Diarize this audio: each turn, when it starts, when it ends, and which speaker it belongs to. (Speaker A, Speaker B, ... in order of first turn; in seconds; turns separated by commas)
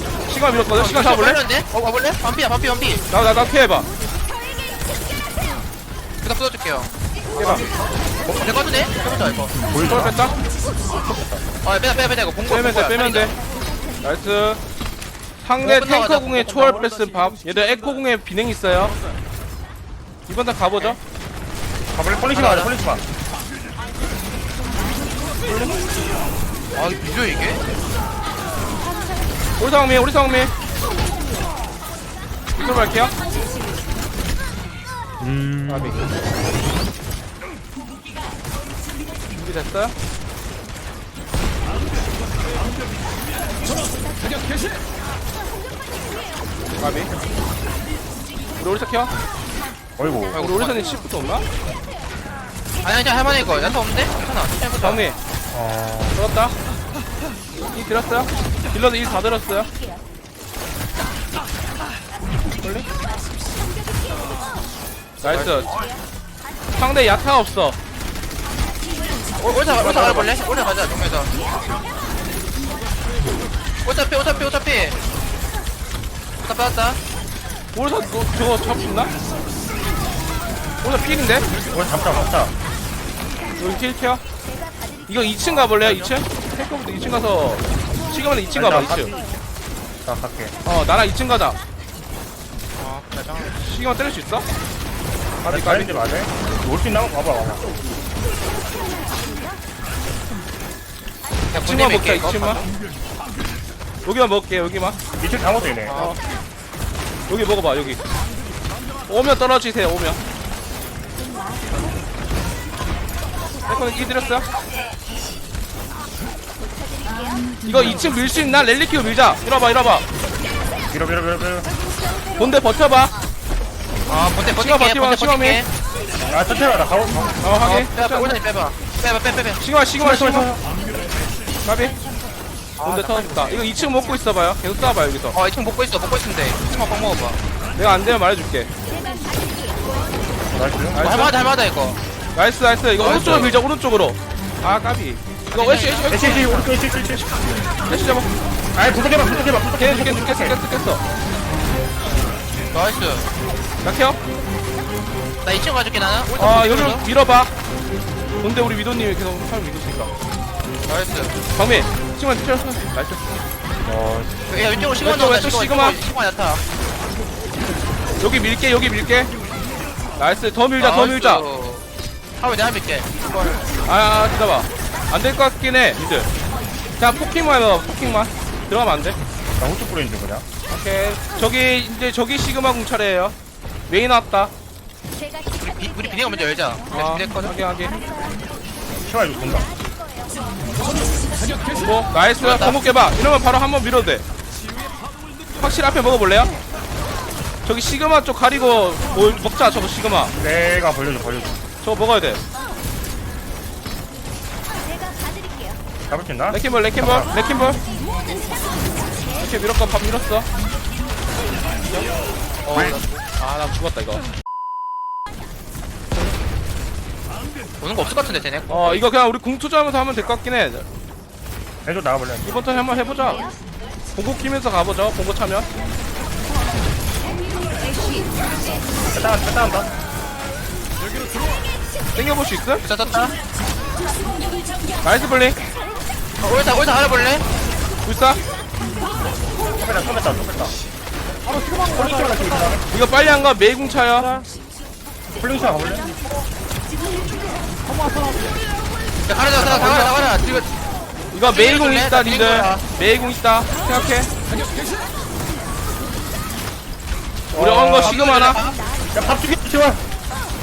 Speaker A: 0.3-1.4, Speaker B: 0.6-3.1, Speaker A: 3.1-3.9, Speaker B: 6.2-6.9, Speaker A: 7.4-7.7, Speaker B: 8.4-9.6, Speaker C: 9.6-10.2, Speaker A: 9.8-10.4, Speaker C: 10.9-11.4, Speaker B: 11.6-13.4, Speaker A: 12.5-13.3, Speaker A: 14.0-14.6, Speaker A: 15.4-18.9, Speaker B: 15.6-16.9, Speaker A: 20.3-21.0, Speaker C: 21.9-23.1, Speaker B: 22.3-22.7, Speaker A: 25.4-25.9, Speaker B: 26.8-27.6, Speaker A: 29.6-30.5, Speaker A: 32.6-33.1, Speaker C: 35.2-36.0, Speaker A: 35.7-36.1, Speaker A: 39.3-39.9, Speaker A: 46.8-47.1, Speaker A: 48.6-49.1, Speaker C: 50.0-50.4, Speaker B: 50.3-51.0, Speaker A: 50.3-51.5, Speaker B: 52.8-55.0, Speaker A: 54.8-55.2, Speaker C: 55.5-56.2, Speaker A: 56.1-56.5, Speaker A: 57.7-59.7, Speaker A: 62.6-62.9, Speaker A: 65.2-65.7, Speaker B: 65.2-65.9, Speaker A: 66.8-67.8, Speaker B: 69.4-71.3, Speaker A: 69.8-70.3, Speaker B: 73.8-75.0, Speaker B: 76.4-77.0, Speaker A: 77.8-79.1, Speaker A: 80.8-81.5, Speaker C: 81.7-82.5, Speaker A: 83.6-84.2, Speaker A: 85.1-89.1, Speaker B: 85.2-86.2, Speaker C: 88.5-89.1, Speaker C: 90.0-90.5, Speaker A: 90.6-91.6, Speaker B: 92.8-93.6, Speaker A: 93.6-94.5, Speaker A: 95.4-96.0, Speaker C: 95.5-97.6, Speaker B: 101.5-102.7, Speaker A: 101.6-102.6, Speaker A: 104.0-105.0, Speaker C: 105.2-106.0, Speaker B: 105.9-106.2, Speaker A: 105.9-106.2, Speaker A: 107.3-108.0, Speaker A: 109.1-110.2, Speaker A: 113.7-114.5, Speaker A: 117.6-120.0, Speaker C: 120.9-121.7, Speaker A: 122.3-123.1, Speaker B: 124.1-125.7, Speaker A: 124.5-125.6, Speaker C: 126.2-127.4, Speaker A: 127.4-128.4, Speaker B: 127.6-129.6, Speaker A: 129.6-130.5, Speaker C: 130.0-130.6, Speaker A: 131.6-132.0, Speaker B: 132.8-133.7, Speaker A: 132.8-135.4, Speaker B: 135.3-137.4, Speaker A: 137.8-138.7, Speaker C: 140.5-141.0, Speaker A: 140.9-141.4, Speaker B: 141.0-142.0, Speaker A: 142.3-146.7, Speaker B: 143.0-143.6, Speaker B: 145.5-146.6, Speaker C: 146.1-147.5, Speaker A: 147.9-148.3, Speaker C: 148.8-150.6, Speaker A: 149.7-151.0, Speaker B: 152.7-153.3, Speaker A: 153.8-154.2, Speaker B: 155.4-157.1, Speaker A: 156.4-157.5, Speaker A: 158.4-160.1, Speaker B: 160.9-161.4, Speaker A: 161.6-163.2, Speaker C: 163.9-164.4, Speaker B: 164.5-166.6, Speaker A: 165.0-166.0, Speaker A: 168.2-169.3, Speaker A: 170.2-171.4, Speaker B: 170.8-171.9, Speaker B: 172.4-173.8, Speaker A: 173.8-176.3, Speaker A: 177.0-179.2, Speaker C: 179.6-180.4, Speaker A: 180.7-183.3, Speaker A: 183.9-184.5, Speaker B: 185.6-187.6, Speaker A: 186.9-187.9, Speaker C: 189.0-189.7, Speaker A: 191.8-194.2, Speaker B: 192.4-192.8, Speaker A: 195.6-196.5, Speaker A: 197.6-200.3, Speaker C: 200.4-201.6, Speaker A: 201.8-202.4, Speaker C: 206.1-207.4, Speaker A: 206.5-207.8, Speaker A: 209.3-210.5, Speaker B: 211.9-212.1, Speaker B: 212.6-213.2, Speaker A: 213.4-214.2, Speaker B: 217.8-219.0, Speaker A: 218.7-220.9, Speaker C: 221.8-222.7, Speaker A: 222.4-223.5, Speaker A: 224.1-225.7, Speaker C: 229.1-229.9, Speaker A: 232.1-232.8, Speaker B: 232.8-233.4, Speaker A: 235.0-235.6, Speaker B: 236.4-237.4, Speaker A: 238.0-238.4, Speaker C: 239.6-240.8, Speaker B: 241.5-242.8, Speaker C: 241.9-242.8, Speaker A: 242.9-244.4, Speaker C: 245.3-246.1, Speaker B: 249.3-250.7, Speaker C: 249.6-249.9, Speaker A: 249.8-250.1, Speaker A: 251.3-254.3, Speaker B: 251.4-252.8, Speaker C: 257.5-258.2, Speaker A: 257.5-258.6, Speaker B: 257.9-258.8, Speaker C: 259.1-260.0